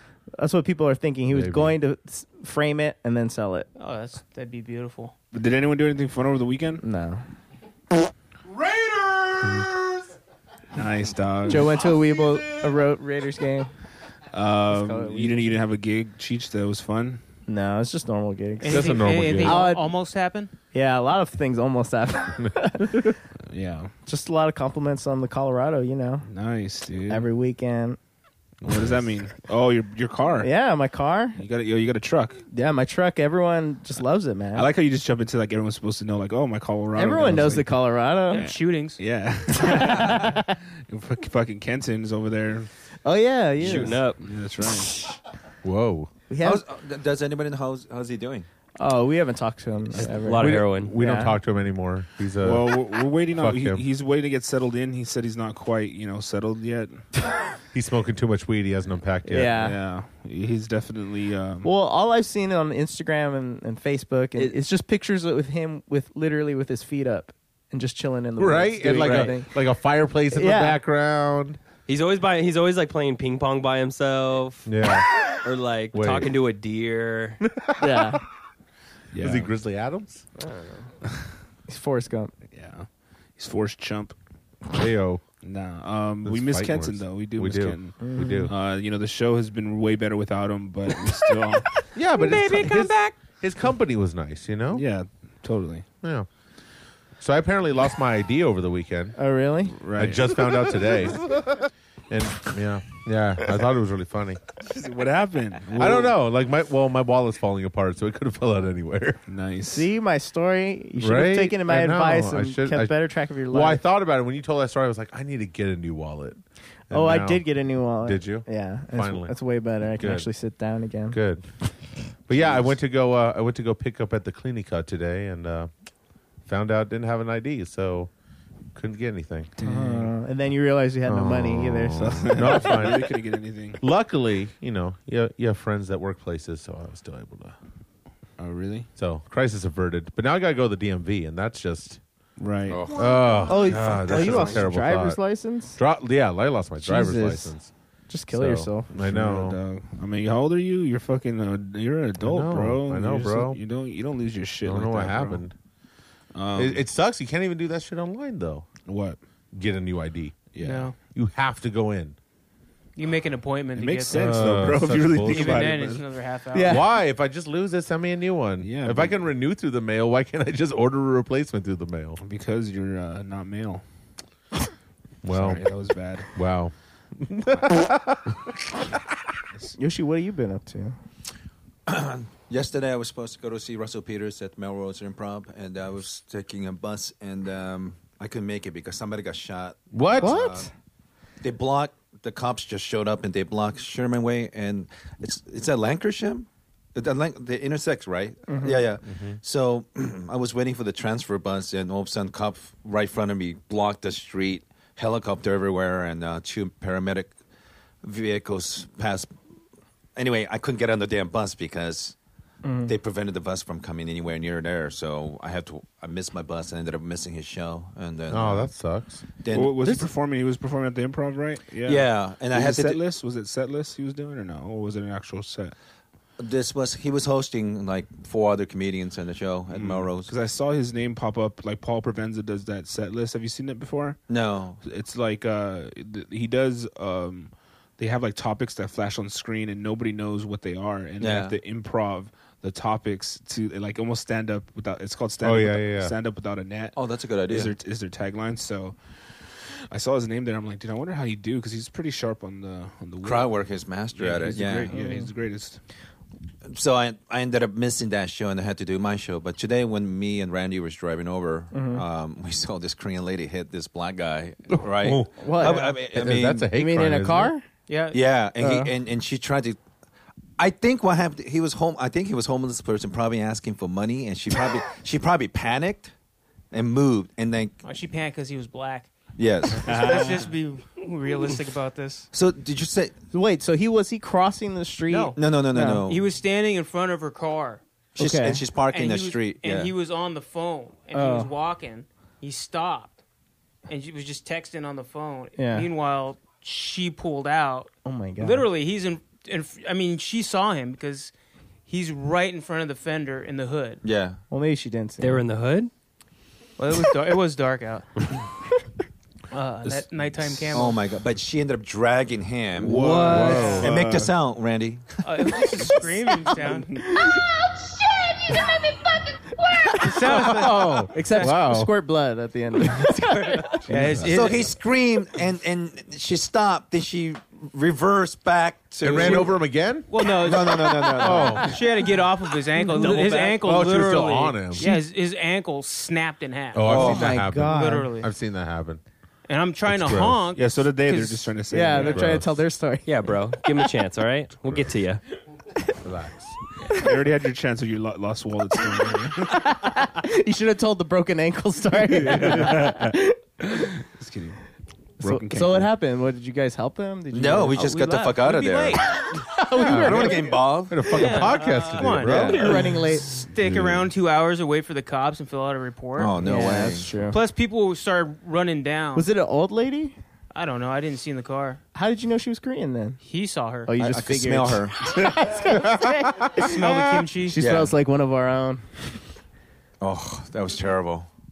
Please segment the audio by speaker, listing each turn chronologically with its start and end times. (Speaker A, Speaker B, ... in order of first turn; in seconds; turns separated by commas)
Speaker A: 0.4-3.7, Speaker B: 1.3-1.8, Speaker C: 3.8-5.1, Speaker D: 5.3-6.8, Speaker A: 6.8-7.2, Speaker D: 10.7-11.8, Speaker A: 11.5-13.7, Speaker D: 14.3-17.2, Speaker A: 14.7-15.6, Speaker A: 17.5-19.9, Speaker C: 18.6-20.5, Speaker B: 18.7-19.6, Speaker A: 20.7-23.1, Speaker B: 22.4-23.1, Speaker D: 23.5-23.9, Speaker A: 24.1-26.3, Speaker D: 26.3-27.3, Speaker A: 27.1-28.0, Speaker B: 28.6-29.0, Speaker D: 28.6-30.5, Speaker A: 30.4-31.4, Speaker D: 31.4-32.4, Speaker A: 32.5-34.7, Speaker D: 34.5-37.7, Speaker A: 36.9-38.5, Speaker C: 38.3-39.0, Speaker D: 38.4-42.7, Speaker A: 40.1-40.5, Speaker A: 43.0-43.9, Speaker E: 43.6-44.2, Speaker D: 43.6-44.9, Speaker B: 45.6-46.1, Speaker A: 46.3-46.6, Speaker F: 46.4-48.5, Speaker A: 48.8-51.3, Speaker E: 50.0-50.9, Speaker B: 50.4-53.8, Speaker D: 52.4-57.0, Speaker B: 57.7-59.5, Speaker A: 59.2-59.8, Speaker D: 59.3-61.7, Speaker A: 61.6-69.5, Speaker B: 68.4-71.6, Speaker A: 70.3-70.8, Speaker E: 71.9-74.7, Speaker B: 74.7-75.3, Speaker E: 75.4-77.4, Speaker B: 75.9-76.3, Speaker B: 77.6-78.2, Speaker A: 77.8-78.2, Speaker D: 79.1-79.5, Speaker B: 79.2-80.2, Speaker A: 80.4-80.8, Speaker A: 81.7-82.3, Speaker D: 82.5-84.1, Speaker B: 84.7-85.2, Speaker D: 85.4-91.7, Speaker B: 86.2-88.5, Speaker A: 88.0-88.5, Speaker B: 91.9-94.8, Speaker D: 94.7-95.8, Speaker B: 96.0-96.3, Speaker B: 97.2-99.2, Speaker A: 99.2-99.7, Speaker D: 99.8-100.4, Speaker B: 99.9-104.4, Speaker D: 104.6-106.1, Speaker B: 105.8-109.2, Speaker D: 109.3-109.9, Speaker A: 109.7-113.8, Speaker B: 111.0-112.9, Speaker B: 113.5-117.5, Speaker A: 116.9-121.2, Speaker B: 118.0-119.3, Speaker B: 120.0-120.3, Speaker B: 121.1-121.5, Speaker B: 122.3-125.7, Speaker B: 126.5-128.1, Speaker B: 128.7-129.5, Speaker D: 129.6-130.1, Speaker A: 129.6-132.2, Speaker B: 131.1-133.2, Speaker D: 132.0-133.8, Speaker B: 133.8-137.6, Speaker D: 138.4-138.9, Speaker B: 139.0-142.0, Speaker D: 142.4-142.9, Speaker F: 142.7-143.1, Speaker B: 142.9-145.2, Speaker A: 143.4-145.8, Speaker B: 145.8-147.7, Speaker A: 146.8-147.5, Speaker A: 148.1-148.9, Speaker B: 148.3-149.6, Speaker D: 149.0-155.4, Speaker B: 152.2-153.6, Speaker B: 154.6-155.5, Speaker D: 156.3-156.8, Speaker B: 156.6-158.7, Speaker D: 158.8-159.2, Speaker B: 159.5-160.5, Speaker D: 160.5-160.9, Speaker C: 160.6-160.9, Speaker B: 161.1-162.2, Speaker C: 162.9-164.5, Speaker D: 163.8-166.0, Speaker B: 164.1-165.7, Speaker C: 165.1-166.9, Speaker A: 166.5-166.8, Speaker B: 166.7-172.2, Speaker D: 168.6-169.2, Speaker D: 172.2-173.8, Speaker B: 175.2-175.6, Speaker D: 175.2-176.3, Speaker B: 176.3-178.8, Speaker A: 179.8-180.9, Speaker F: 181.9-190.7, Speaker B: 189.9-190.5, Speaker A: 190.2-190.7, Speaker F: 191.4-207.3, Speaker A: 198.5-198.8, Speaker B: 199.1-199.4, Speaker F: 208.0-209.3, Speaker F: 210.2-212.2, Speaker A: 212.6-212.9, Speaker F: 212.8-218.7, Speaker B: 218.3-219.2, Speaker F: 219.4-219.9, Speaker D: 219.5-225.7, Speaker F: 221.8-223.0, Speaker F: 226.4-230.3, Speaker D: 229.7-234.2, Speaker F: 234.3-234.8, Speaker D: 234.8-248.9, Speaker F: 241.2-241.6, Speaker B: 245.4-246.1, Speaker F: 246.9-247.7, Speaker D: 249.5-253.6, Speaker F: 253.2-255.1, Speaker D: 254.1-255.8, Speaker A: 254.9-255.3, Speaker F: 256.7-266.7, Speaker A: 261.7-262.0, Speaker B: 264.8-267.5, Speaker A: 265.4-265.9, Speaker A: 266.7-267.6, Speaker C: 267.9-268.3, Speaker F: 268.1-269.8, Speaker A: 268.6-268.9, Speaker F: 270.6-276.1, Speaker F: 276.7-277.8, Speaker C: 277.8-279.1, Speaker F: 279.4-280.2, Speaker C: 279.8-282.3, Speaker D: 279.9-280.4, Speaker F: 282.3-283.1, Speaker A: 283.3-286.0, Speaker C: 285.1-285.4, Speaker F: 285.3-286.3, Speaker C: 285.9-287.8, Speaker F: 288.1-289.9, Speaker A: 288.2-288.6, Speaker C: 288.8-293.2, Speaker A: 291.1-291.5, Speaker C: 293.9-301.3, Speaker A: 295.6-295.9, Speaker A: 298.0-298.7, Speaker C: 301.9-304.0, Speaker F: 304.0-304.4, Speaker A: 304.5-305.4, Speaker E: 305.2-305.9, Speaker C: 306.8-308.1, Speaker C: 309.5-311.0, Speaker D: 309.8-310.6, Speaker F: 310.7-315.8, Speaker D: 312.8-314.3, Speaker B: 313.1-313.9, Speaker C: 313.4-313.9, Speaker C: 315.2-317.0, Speaker D: 316.7-317.0, Speaker A: 317.0-317.4, Speaker A: 319.6-323.8, Speaker C: 320.0-321.6, Speaker B: 320.5-321.9, Speaker C: 323.6-324.8, Speaker B: 323.9-324.4, Speaker F: 324.3-329.6, Speaker B: 329.0-330.1, Speaker C: 329.2-329.5, Speaker C: 330.1-338.3, Speaker F: 330.1-331.8, Speaker B: 331.2-331.7, Speaker A: 332.9-333.2, Speaker E: 332.9-333.6, Speaker B: 333.6-334.9, Speaker B: 336.7-339.0, Speaker F: 336.8-337.3, Speaker A: 336.9-338.1, Speaker C: 339.5-342.1, Speaker B: 339.9-340.4, Speaker D: 340.6-342.4, Speaker A: 341.7-343.1, Speaker B: 342.0-342.5, Speaker E: 343.0-345.2, Speaker B: 344.6-344.9, Speaker B: 346.0-346.6, Speaker D: 346.9-349.6, Speaker A: 349.5-353.7, Speaker D: 352.2-353.1, Speaker D: 353.8-354.6, Speaker D: 355.2-355.9, Speaker A: 355.2-357.9, Speaker F: 357.3-359.1, Speaker C: 357.7-359.1, Speaker A: 359.7-360.5, Speaker F: 359.7-362.6, Speaker B: 359.7-362.6, Speaker C: 361.1-366.4, Speaker A: 362.3-363.2, Speaker B: 363.6-364.0, Speaker F: 366.1-367.2, Speaker A: 366.4-367.4, Speaker C: 367.2-369.3, Speaker A: 369.1-370.1, Speaker C: 370.5-371.8, Speaker A: 371.9-373.2, Speaker C: 373.2-373.9, Speaker A: 373.8-376.8, Speaker F: 374.0-375.0, Speaker B: 375.8-376.7, Speaker C: 376.6-377.6, Speaker A: 377.4-379.0, Speaker F: 377.6-377.9, Speaker F: 380.0-381.3